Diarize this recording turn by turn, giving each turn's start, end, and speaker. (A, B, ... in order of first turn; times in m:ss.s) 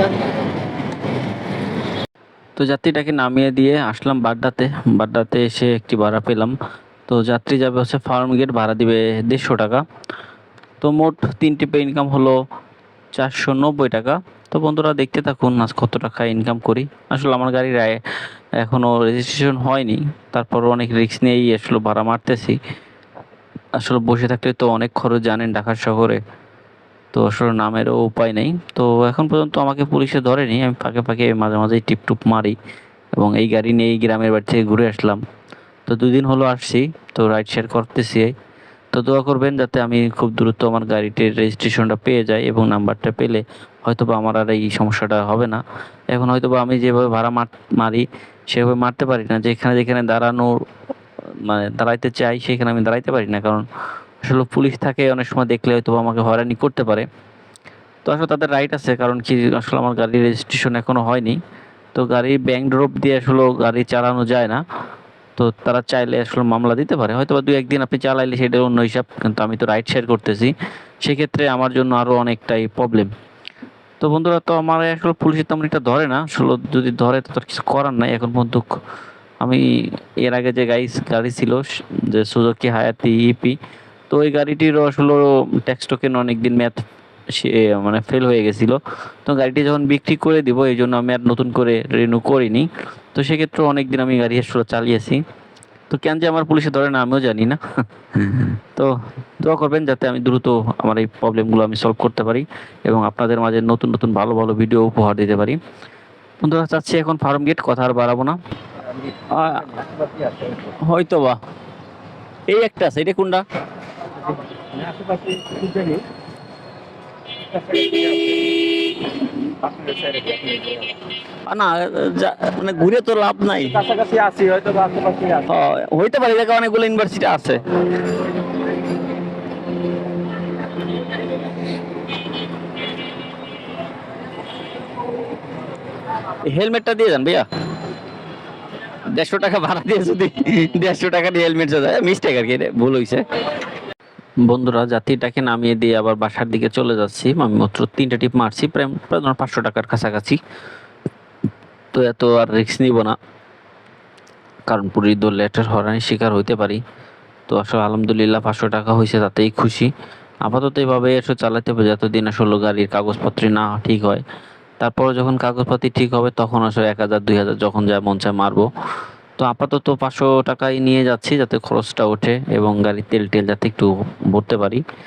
0:02.6-0:06.6 A
0:07.1-0:09.8 A
0:10.8-0:12.4 A
0:13.1-0:18.0 A
0:18.6-0:22.6 A
0:23.8-0:26.2 A
0:27.1-0:32.6 A
0:33.2-0:35.2 A
0:35.9-0:38.3 A
0:38.9-0:50.6 A
0:51.4-0:53.6 A
0:54.2-0:57.1 A
0:58.0-1:01.4 A
1:01.9-1:04.6 A
1:05.4-1:13.1 A
1:14.0-1:18.7 A
1:19.4-1:23.6 A
1:24.1-1:35.2 A
1:35.9-1:37.6 A
1:38.1-1:45.6 A
1:46.4-1:48.4 A
1:48.9-1:50.6 B
1:49.3-1:49.8 A
1:50.6-1:51.4 A
1:52.5-1:53.4 A
1:54.6-1:56.0 B
1:57.5-1:58.4 B
1:59.6-2:00.9 B
2:01.5-2:03.8 A
2:03.7-2:05.5 B
2:05.4-2:07.6 A
2:16.4-2:17.4 A
2:19.1-2:23.3 A
2:24.4-2:30.4 A
2:31.9-2:33.2 A
2:34.7-2:36.8 A
2:37.5-2:39.9 A
2:40.4-2:44.2 A
2:44.8-2:48.7 A
2:49.4-2:54.8 A